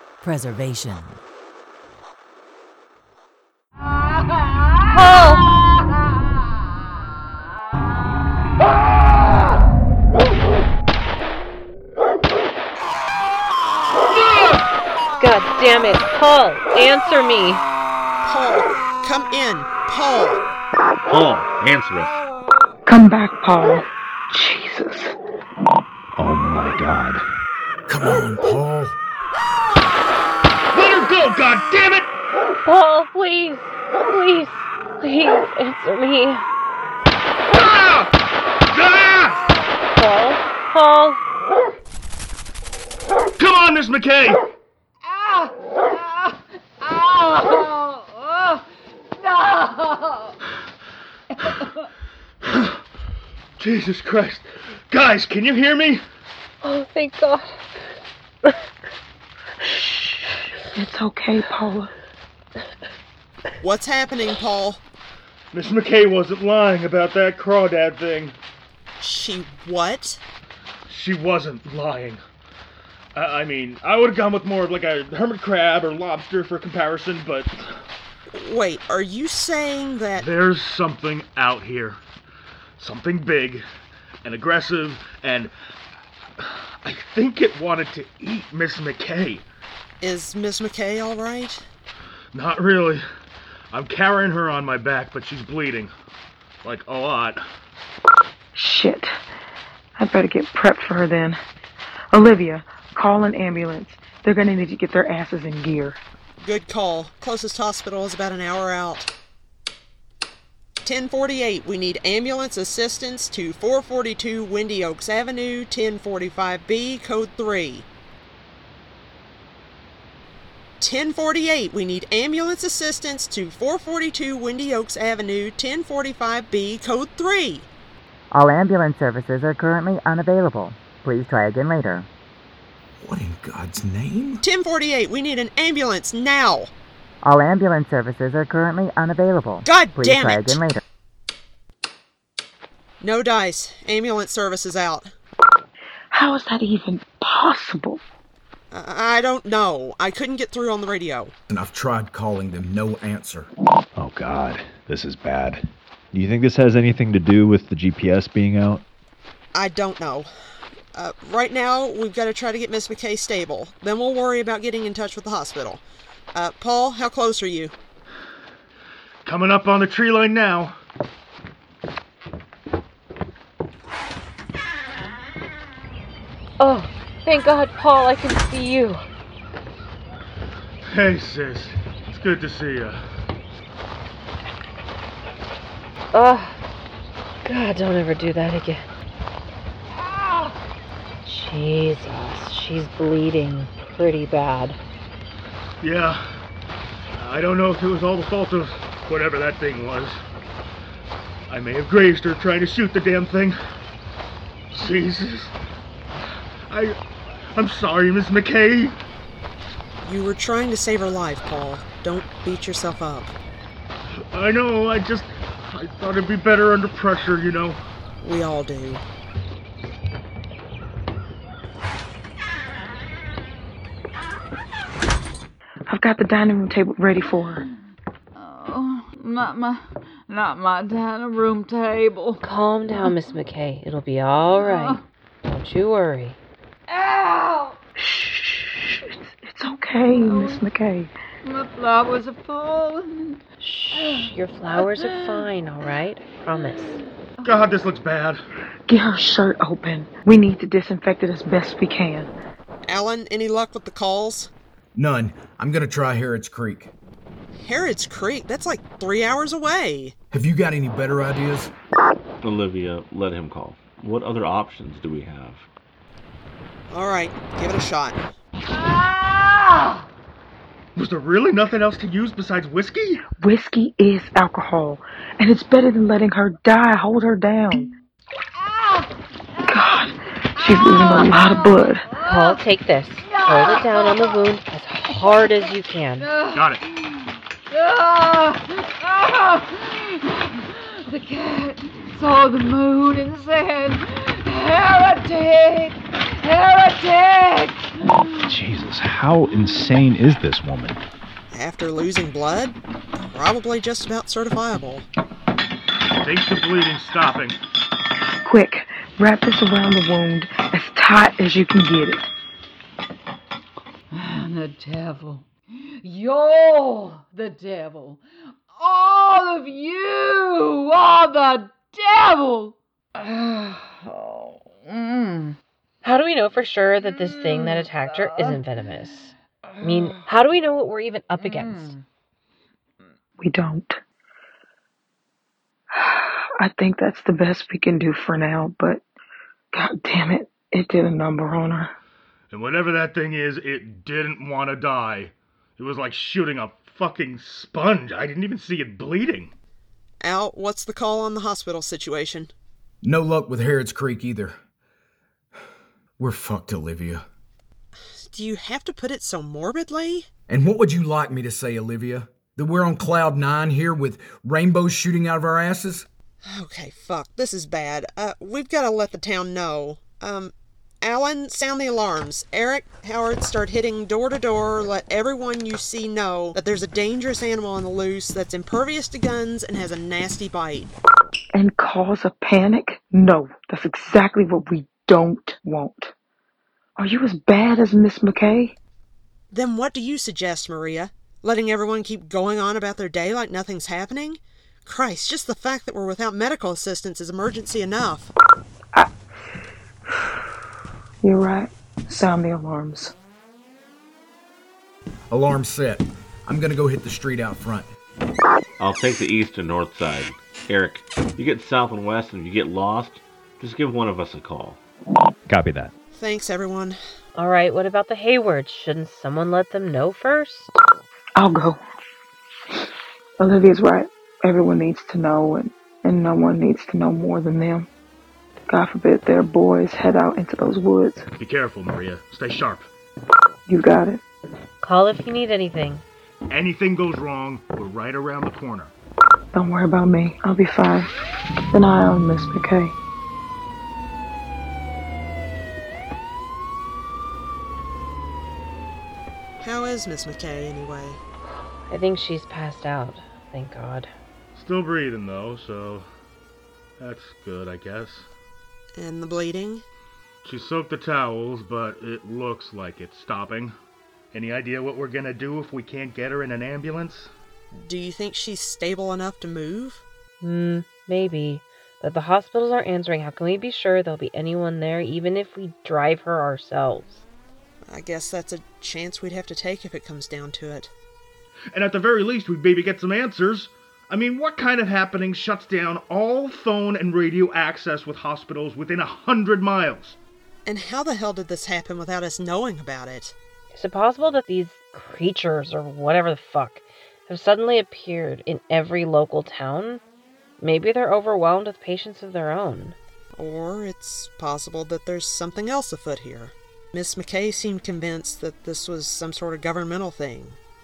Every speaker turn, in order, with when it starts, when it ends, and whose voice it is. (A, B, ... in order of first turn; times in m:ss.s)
0:00.2-0:01.2 A
0:04.8-0:05.4 B
0:15.2-0:17.6 B
0:18.2-0:20.4 C
0:21.1-0:22.2 D
0:22.9-0:25.1 E
0:26.2-0:27.2 F
0:27.9-0:29.0 G
0:30.7-0:32.1 H
0:32.6-0:36.4 B
0:37.5-0:38.1 H
0:38.7-0:39.5 H
0:39.9-0:41.2 B
0:43.4-0:44.4 H
0:45.1-0:48.6 I
0:49.2-0:50.3 I
0:52.4-0:52.8 H
0:53.6-0:56.0 H
0:56.6-0:57.6 B
1:00.7-1:01.9 E
1:03.6-1:04.8 C
1:05.5-1:08.4 H
1:09.0-1:10.2 C
1:10.9-1:12.2 H
1:13.1-1:17.6 H
1:18.3-1:20.3 C
1:20.2-1:22.0 H
1:22.8-1:23.6 H
1:24.2-1:25.5 H
1:26.4-1:29.4 H
1:30.0-1:31.6 C
1:32.3-1:33.0 H
1:33.7-1:35.9 H
1:36.6-1:37.4 H
1:38.5-1:39.1 E
1:40.0-1:41.4 E
1:42.1-1:46.0 E
1:46.4-1:49.1 C
1:50.8-1:57.9 C
2:00.8-2:07.7 C
2:08.3-2:12.1 A
2:13.0-2:14.4 G
2:14.4-2:16.7 C
2:17.2-2:20.8 A
2:19.6-2:20.6 C
2:23.0-2:25.1 C
2:26.1-2:28.0 E
2:28.7-2:31.3 C
2:31.5-2:33.5 G
2:33.9-2:38.8 F
2:39.5-2:40.3 C
2:40.9-2:47.7 C
2:49.2-2:50.8 H
2:56.6-2:59.0 B
3:00.9-3:03.0 H
3:06.1-3:06.6 B
3:07.4-3:08.8 B
3:10.1-3:10.5 I
3:11.2-3:14.8 B
3:15.8-3:16.3 H
3:17.2-3:20.2 H
3:21.5-3:23.6 H
3:24.7-3:25.5 H
3:26.7-3:27.0 H
3:27.5-3:29.0 H
3:30.0-3:33.3 C
3:34.3-3:37.8 H
3:38.2-3:39.0 C
3:45.9-3:47.6 E
3:48.4-3:52.4 I
3:52.4-3:56.4 B
3:54.5-3:55.0 I
3:56.9-3:57.8 I
3:58.0-4:01.1 E
4:00.0-4:00.7 I
4:01.4-4:03.4 I
4:03.6-4:07.0 B
4:03.9-4:05.4 I
4:07.4-4:08.4 H
4:08.9-4:12.3 E
4:12.8-4:14.5 C
4:15.0-4:16.9 G
4:17.6-4:20.1 C
4:20.3-4:21.7 G
4:22.4-4:25.6 D
4:26.9-4:28.3 C
4:28.7-4:30.0 I
4:31.0-4:33.2 H
4:33.4-4:37.9 E
4:38.6-4:39.1 I
4:39.7-4:42.0 E
4:40.6-4:42.6 I
4:42.2-4:46.3 B
4:43.2-4:44.3 I
4:46.2-4:46.7 I
4:46.5-4:46.8 H
4:47.7-4:58.5 I
4:58.5-5:01.0 F
4:59.4-5:00.0 D
5:01.5-5:05.1 C
5:06.2-5:07.6 H
5:08.4-5:12.3 E
5:14.1-5:15.5 I
5:16.0-5:18.2 I
5:18.8-5:25.6 I
5:26.0-5:29.3 B
5:27.0-5:28.6 I
5:29.7-5:30.3 I
5:29.8-5:31.9 B
5:31.4-5:32.0 I
5:33.4-5:34.0 E
5:35.9-5:39.0 E
5:39.7-5:41.9 E
5:42.5-5:49.5 H
5:50.2-5:52.5 C
5:53.0-5:54.6 G
5:56.2-5:57.2 G
5:58.1-6:00.3 C
6:00.5-6:06.1 G
6:06.4-6:20.9 C
6:21.5-6:26.1 E
6:27.0-6:28.7 E
6:29.5-6:38.3 C
6:41.2-6:43.1 E
6:45.3-6:47.9 G
6:48.8-6:54.8 D
6:55.5-6:55.9 F
6:56.1-6:57.0 C
6:57.3-7:00.7 B
7:01.4-7:01.8 E
7:03.4-7:07.9 E
7:08.7-7:11.2 E
7:11.4-7:12.8 H
7:13.7-7:14.2 E
7:14.8-7:16.0 B
7:16.5-7:18.9 H
7:19.5-7:21.1 E
7:21.7-7:22.9 E
7:29.6-7:31.2 C
7:31.8-7:34.1 B
7:34.5-7:36.0 H
7:37.0-7:38.2 H
7:38.9-7:39.8 C
7:40.4-7:43.7 H
7:44.3-7:47.3 H
7:47.8-7:50.0 C
7:50.4-7:57.2 B
7:57.8-8:00.9 C
8:01.7-8:10.2 H
8:10.6-8:13.3 C
8:13.7-8:20.0 B
8:20.6-8:23.0 B
8:23.4-8:30.6 C